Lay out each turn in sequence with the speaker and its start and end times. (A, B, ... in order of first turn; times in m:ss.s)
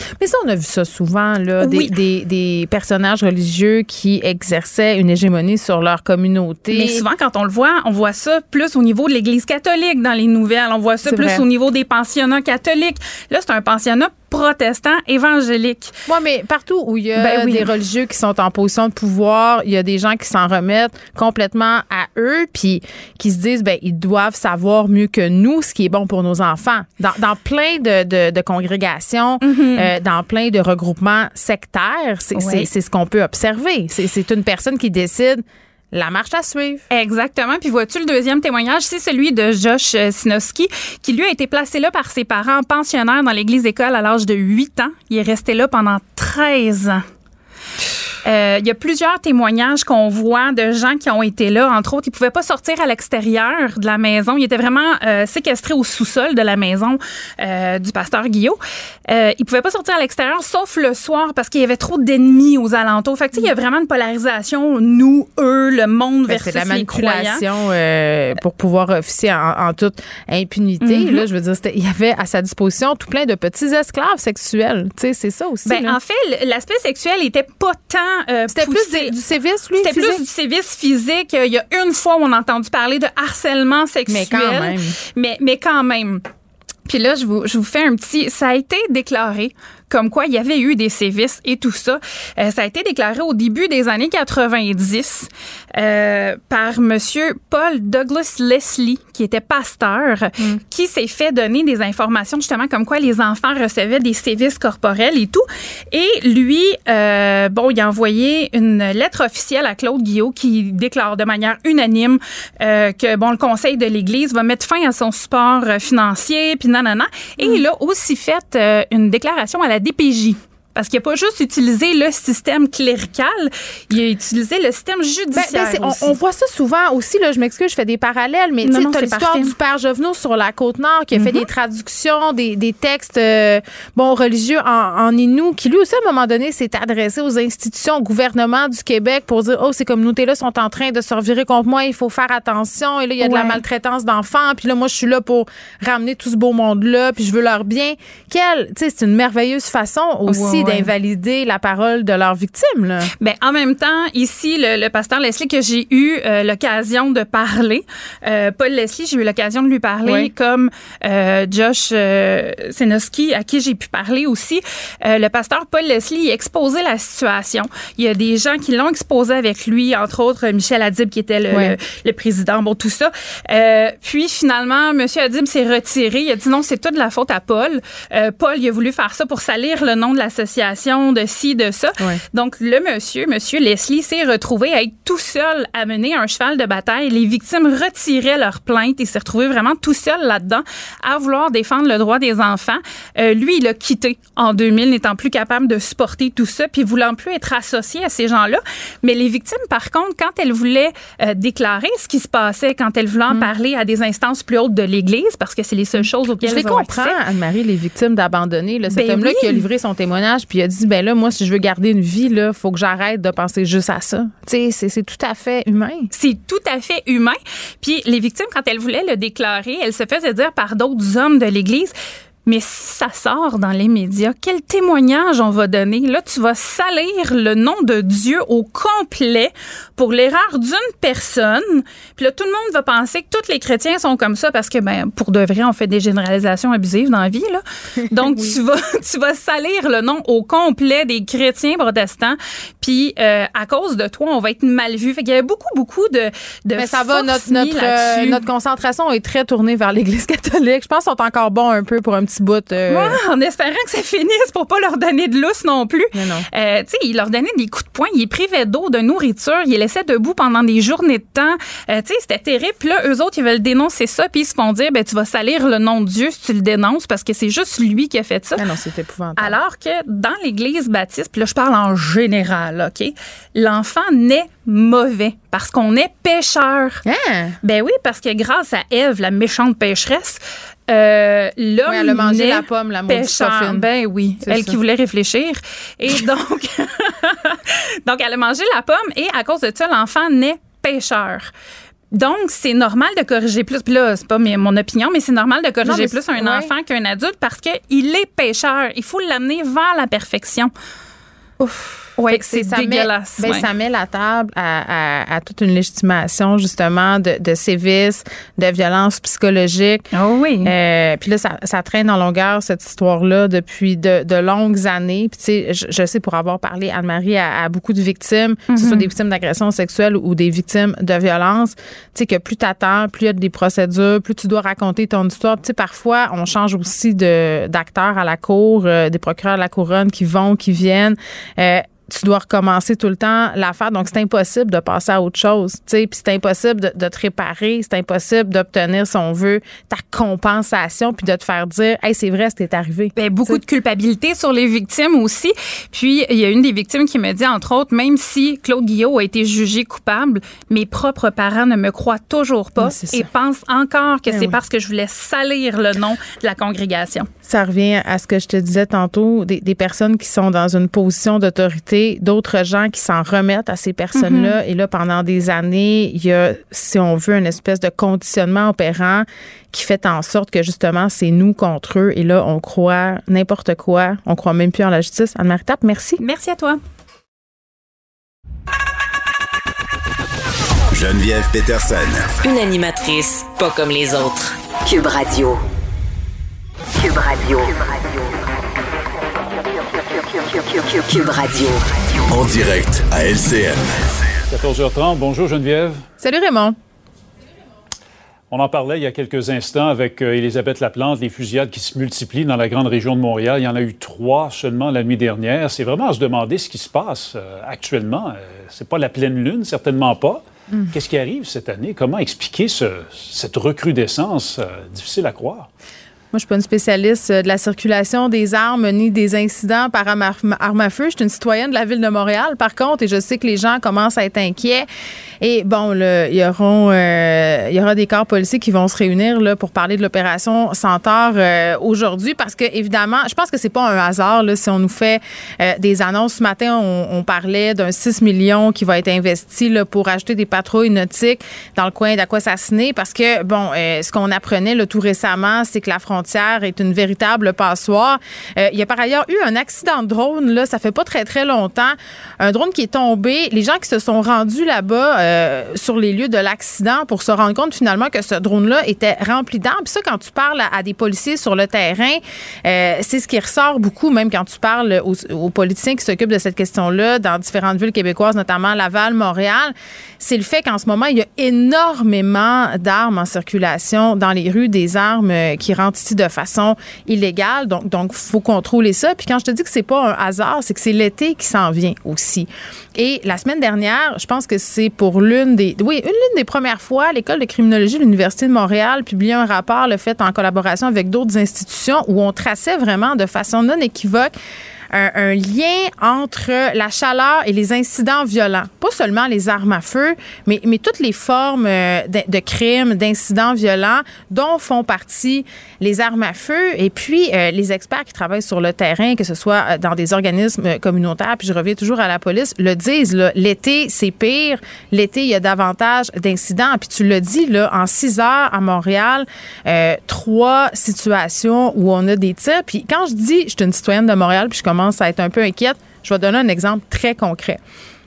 0:00.2-0:07.1 A
0:01.6-0:01.9 B
0:06.7-0:15.9 B
0:11.0-0:11.4 A
0:16.1-0:36.8 A
0:17.2-0:17.7 B
0:29.4-0:29.9 B
0:32.4-0:32.7 B
0:36.9-0:47.0 B
0:48.2-1:07.5 B
1:06.3-1:16.0 A
1:10.8-1:11.3 B
1:15.6-1:19.1 B
1:18.5-1:20.2 A
1:19.8-1:26.2 B
1:24.1-1:25.0 A
1:26.9-2:06.2 B
1:57.4-1:57.6 A
2:05.3-2:33.1 A
2:08.6-2:09.5 B
2:11.2-2:11.5 B
2:23.2-2:23.6 B
2:30.3-2:30.9 B
2:33.2-3:27.2 B
2:40.0-2:40.3 A
2:51.5-2:51.8 A
3:26.0-3:36.1 A
3:28.9-3:29.7 B
3:36.1-4:08.4 B
3:58.1-3:58.6 A
4:06.8-4:13.2 A
4:12.9-4:28.7 B
4:16.1-4:16.5 A
4:28.6-4:29.6 A
4:29.4-4:37.0 B
4:37.0-4:37.6 A
4:37.6-4:51.5 B
4:41.9-4:43.9 A
4:44.4-4:44.8 A
4:52.1-5:00.7 B
4:55.8-4:56.7 A
5:01.6-5:10.1 A
5:02.2-5:03.7 B
5:10.1-5:10.7 B
5:10.6-5:43.6 A
5:18.7-5:19.1 B
5:43.2-5:57.3 B
5:52.8-5:53.3 A
5:54.3-5:54.6 A
5:57.4-6:16.2 A
6:04.1-6:04.6 B
6:16.2-6:16.8 B
6:20.9-6:22.4 C
6:22.4-6:25.6 D
6:27.0-6:28.4 D
6:29.9-6:32.2 D
6:32.3-6:33.9 C
6:34.5-6:36.0 E
6:36.2-6:36.8 A
6:38.5-6:55.7 E
6:56.3-7:04.9 A
7:05.4-8:14.4 A
8:14.9-8:47.6 A